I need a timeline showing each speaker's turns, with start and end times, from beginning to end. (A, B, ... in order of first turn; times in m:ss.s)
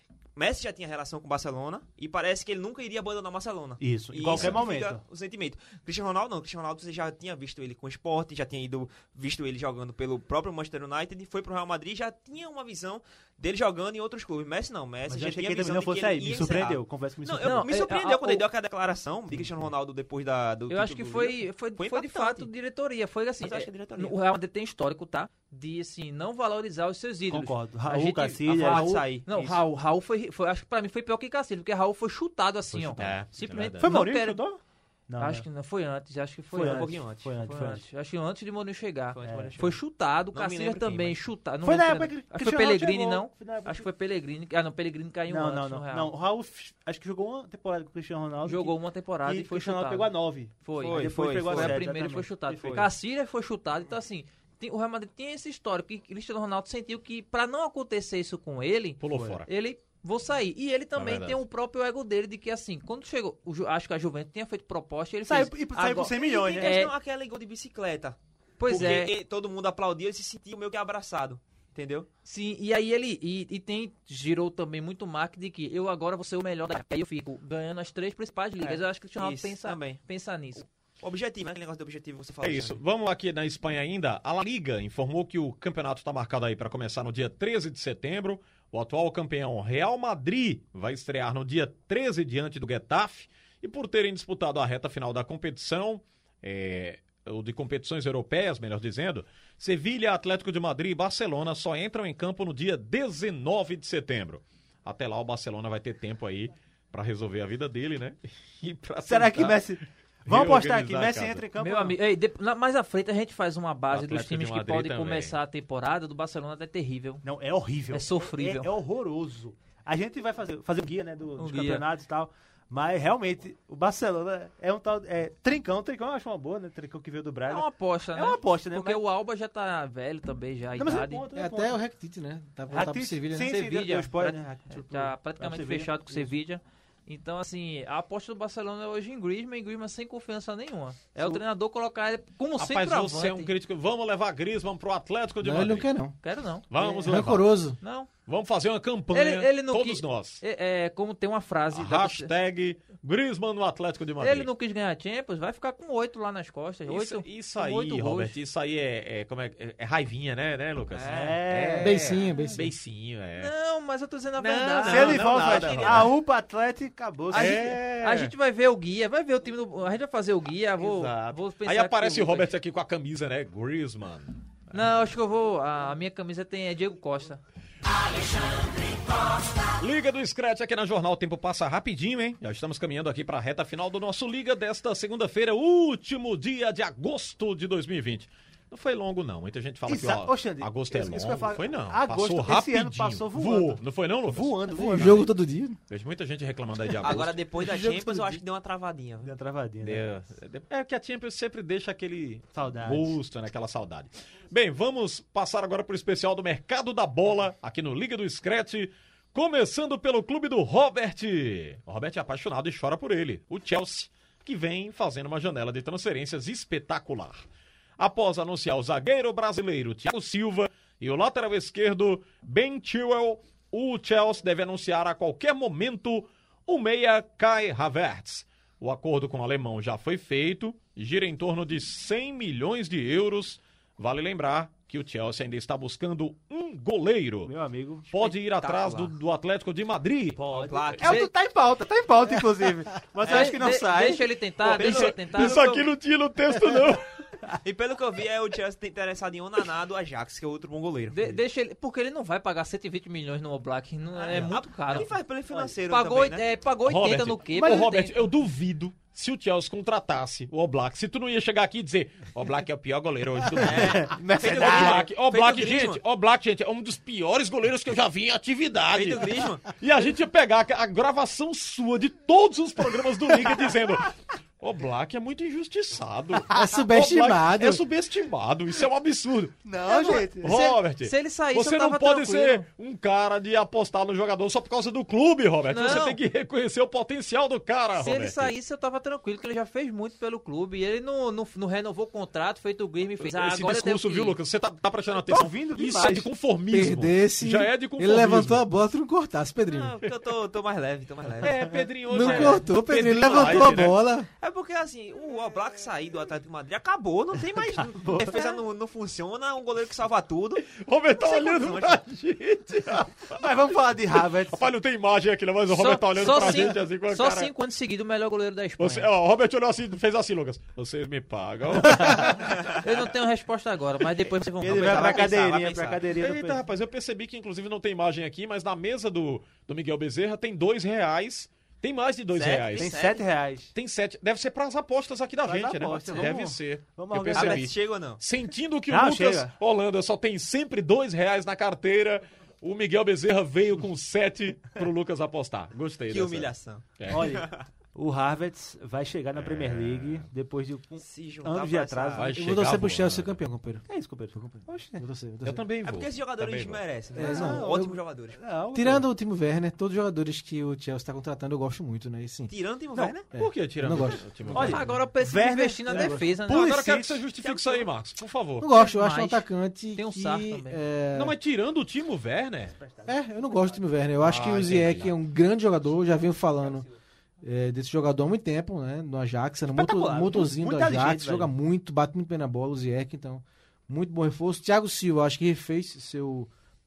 0:00.4-0:22.5 A
0:03.8-0:05.0 B
0:04.3-0:04.6 C
0:15.1-0:17.7 B
0:17.4-0:18.4 D
0:20.7-0:34.4 D
0:23.4-0:24.2 A
0:27.3-0:29.1 B
0:28.5-0:29.6 A
0:32.7-0:33.9 C
0:33.8-0:35.5 B
0:35.2-0:46.1 D
0:36.5-0:37.8 B
0:36.6-0:37.3 A
0:39.2-0:39.6 A
0:39.2-0:39.8 B
0:40.3-0:41.2 A
0:41.6-0:43.9 B
0:45.3-0:52.9 B
0:48.4-1:06.9 D
0:50.8-0:51.8 A
0:59.0-0:59.5 C
0:59.1-0:59.4 B
1:01.0-1:01.4 C
1:05.3-1:06.9 B
1:06.1-1:12.1 A
1:08.6-1:09.2 D
1:12.3-1:20.7 D
1:18.6-1:20.0 A
1:21.0-1:22.8 A
1:22.4-1:49.8 C
1:49.1-1:52.0 B
1:50.3-1:51.4 C
1:51.6-1:57.2 D
1:53.9-1:55.4 C
1:57.2-2:09.0 B
1:57.9-1:58.7 D
2:01.4-2:01.8 D
2:07.5-2:11.3 D
2:10.8-2:11.8 B
2:11.3-2:13.6 E
2:12.7-2:16.3 B
2:13.4-2:23.5 D
2:22.6-2:25.9 C
2:25.4-2:26.2 E
2:26.2-2:26.7 D
2:26.7-2:27.5 C
2:26.8-2:27.8 E
2:27.8-2:28.1 D
2:28.3-2:30.4 C
2:29.1-2:32.3 D
2:31.7-2:34.5 C
2:34.2-2:38.4 D
2:36.9-2:43.5 C
2:40.9-2:41.4 A
2:41.1-2:42.1 B
2:41.8-2:42.7 E
2:43.4-2:46.1 D
2:44.4-2:46.2 C
2:44.9-2:47.7 B
2:47.3-2:52.5 D
2:47.3-2:48.3 C
2:50.8-2:54.9 C
2:54.7-2:57.4 D
2:59.8-3:15.3 C
3:09.9-3:15.3 B
3:14.8-3:15.8 E
3:15.9-3:17.4 C
3:17.0-3:19.3 A
3:17.6-3:18.4 B
3:19.2-3:20.2 B
3:19.8-3:37.4 C
3:22.5-3:23.2 B
3:38.0-3:57.6 C
3:57.4-3:58.1 B
3:58.1-4:00.5 C
3:58.2-3:59.2 A
4:00.4-4:04.3 B
4:00.5-4:01.2 A
4:01.0-4:01.3 D
4:03.2-4:05.7 D
4:03.2-4:03.5 A
4:04.6-4:05.9 A
4:04.7-4:07.1 C
4:07.6-4:11.4 A
4:11.1-4:15.1 D
4:14.2-4:16.5 A
4:15.9-4:18.2 D
4:16.8-4:39.6 C
4:23.6-4:26.0 A
4:23.7-4:25.0 B
4:28.9-4:29.7 A
4:36.5-4:37.8 E
4:39.6-4:40.6 B
4:39.8-4:42.7 D
4:40.4-4:48.5 C
4:45.7-4:46.2 D
4:48.0-4:54.4 D
4:53.2-4:58.6 C
4:55.2-4:56.3 B
4:56.7-5:00.0 E
4:59.7-5:01.6 A
5:01.4-5:04.0 C
5:02.1-5:04.3 E
5:04.4-5:10.7 A
5:07.7-5:08.6 B
5:10.7-5:17.5 C
5:11.2-5:12.0 A
5:13.4-5:14.6 B
5:15.7-5:19.1 D
5:18.8-5:22.7 C
5:22.7-5:25.3 D
5:24.6-5:26.6 B
5:24.6-5:26.0 A
5:26.1-5:33.0 C
5:32.3-5:33.2 A
5:32.8-5:33.7 B
5:33.7-5:47.4 C
5:35.4-5:37.6 B
5:37.3-5:38.2 A
5:38.9-5:39.5 B
5:46.1-5:47.7 A
5:47.1-5:52.3 B
5:49.3-5:50.3 C
5:51.0-5:52.3 A
5:52.2-5:53.4 C
5:52.4-5:55.6 E
5:53.9-5:55.0 B
5:55.4-5:56.8 C
5:55.8-5:58.4 A
5:57.2-5:57.9 E
5:57.2-5:59.1 B
5:58.7-6:02.5 E
6:02.5-6:03.3 A
6:03.0-6:03.2 B
6:03.3-6:05.0 E
6:03.3-6:04.9 C
6:04.5-6:07.2 B
6:04.6-6:06.8 D
6:06.0-6:08.7 C
6:07.4-6:07.9 A
6:08.6-6:11.4 E
6:08.7-6:10.8 D
6:11.1-6:12.8 C
6:12.8-6:13.2 B
6:13.1-6:16.8 E
6:14.2-6:15.2 C
6:17.4-6:26.5 E
6:19.7-6:21.5 B